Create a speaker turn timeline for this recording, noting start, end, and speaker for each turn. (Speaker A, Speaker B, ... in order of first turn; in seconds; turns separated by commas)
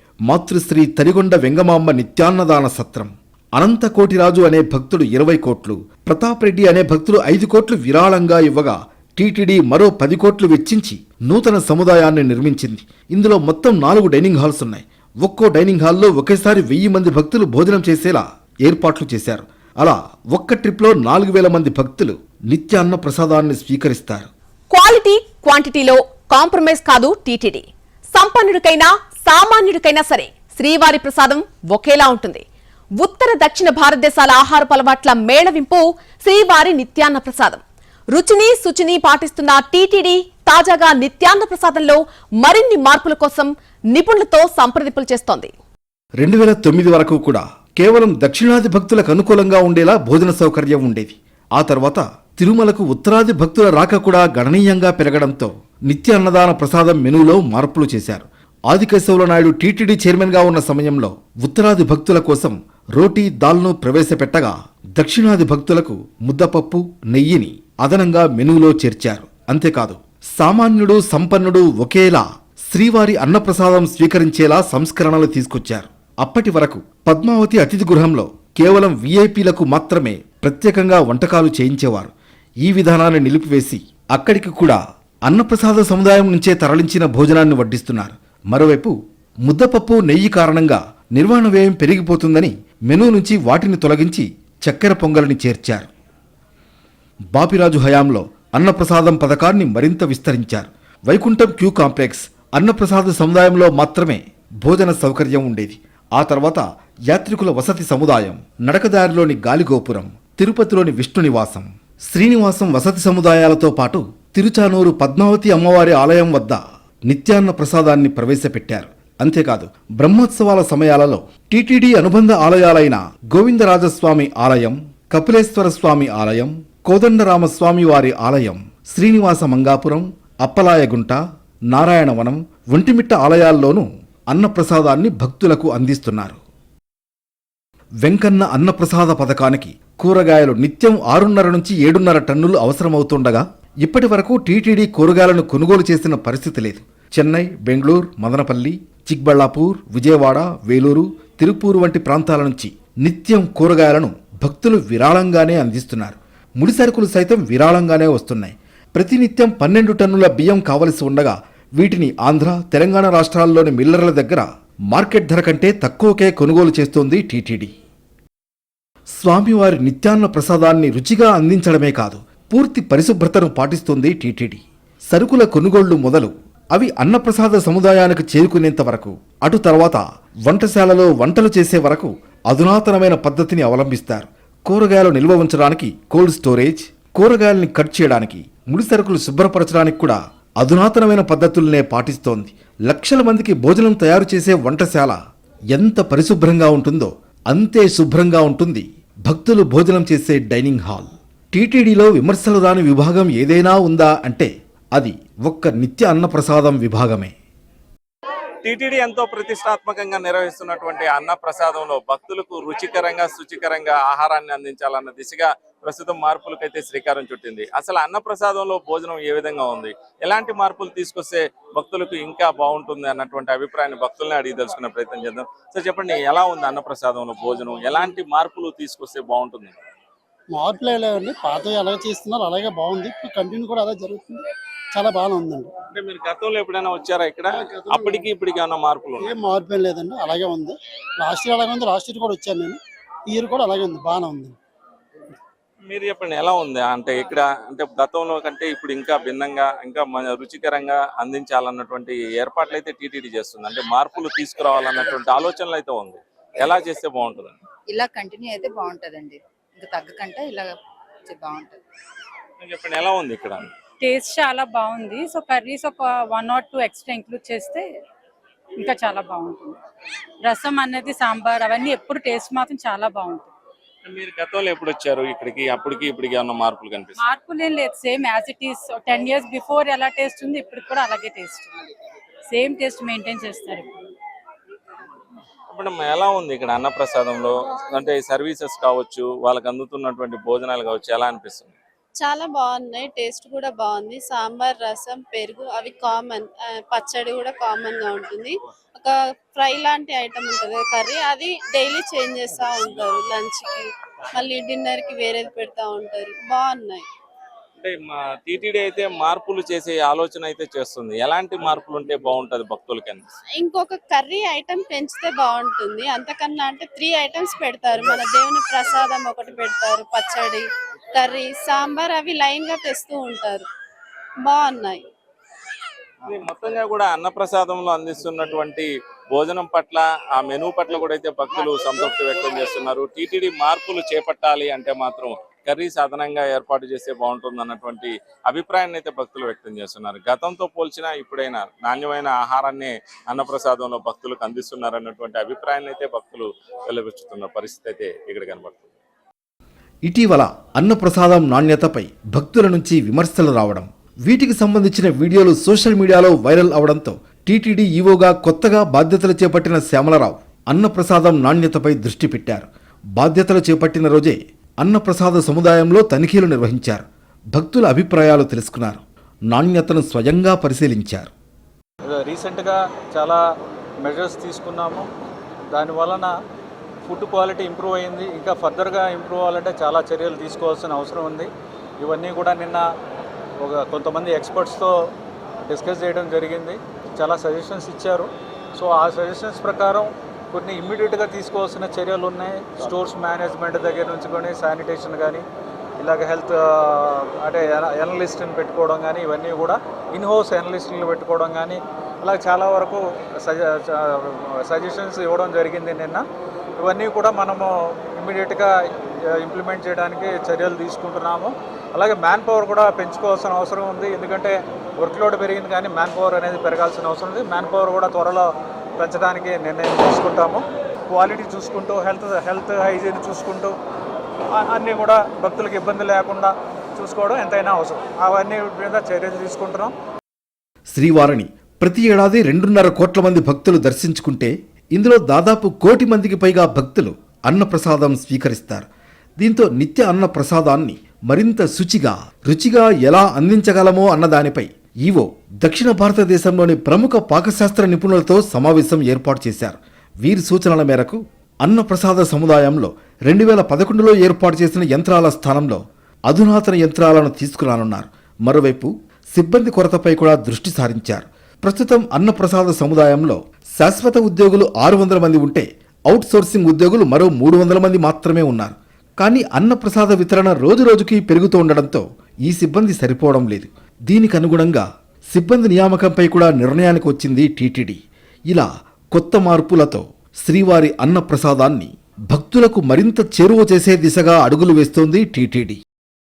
Speaker A: 0.3-24.3, Speaker B: 24.7-32.4, Speaker B: 33.0-37.6, Speaker B: 38.1-45.5, Speaker A: 46.2-82.1, Speaker A: 82.6-95.9, Speaker A: 97.3-131.2, Speaker A: 131.7-136.4, Speaker A: 138.0-167.7, Speaker A: 169.2-195.2, Speaker A: 195.7-207.3, Speaker C: 208.6-229.8, Speaker D: 230.5-234.4, Speaker D: 234.9-235.7, Speaker C: 235.9-239.4, Speaker D: 237.6-238.3, Speaker D: 239.2-244.6, Speaker C: 245.9-257.6, Speaker E: 257.9-261.8, Speaker C: 262.6-263.7, Speaker F: 264.0-267.9, Speaker F: 268.8-269.8, Speaker F: 270.4-273.5, Speaker C: 274.1-277.2, Speaker F: 277.2-281.7, Speaker F: 282.5-284.0, Speaker C: 285.7-291.8, Speaker G: 292.2-307.1, Speaker C: 307.8-313.3, Speaker G: 313.6-323.6, Speaker G: 324.4-325.0, Speaker C: 326.3-349.0, Speaker A: 350.1-371.3, Speaker H: 372.1-373.4, Speaker H: 374.0-375.1, Speaker H: 375.7-376.3, Speaker H: 377.1-381.5, Speaker H: 382.0-382.9, Speaker H: 383.6-384.9, Speaker H: 385.7-395.4, Speaker H: 396.0-406.2, Speaker H: 406.8-408.7, Speaker H: 409.4-423.8, Speaker H: 424.5-429.9, Speaker A: 430.9-438.9, Speaker A: 439.4-478.0, Speaker A: 478.5-485.8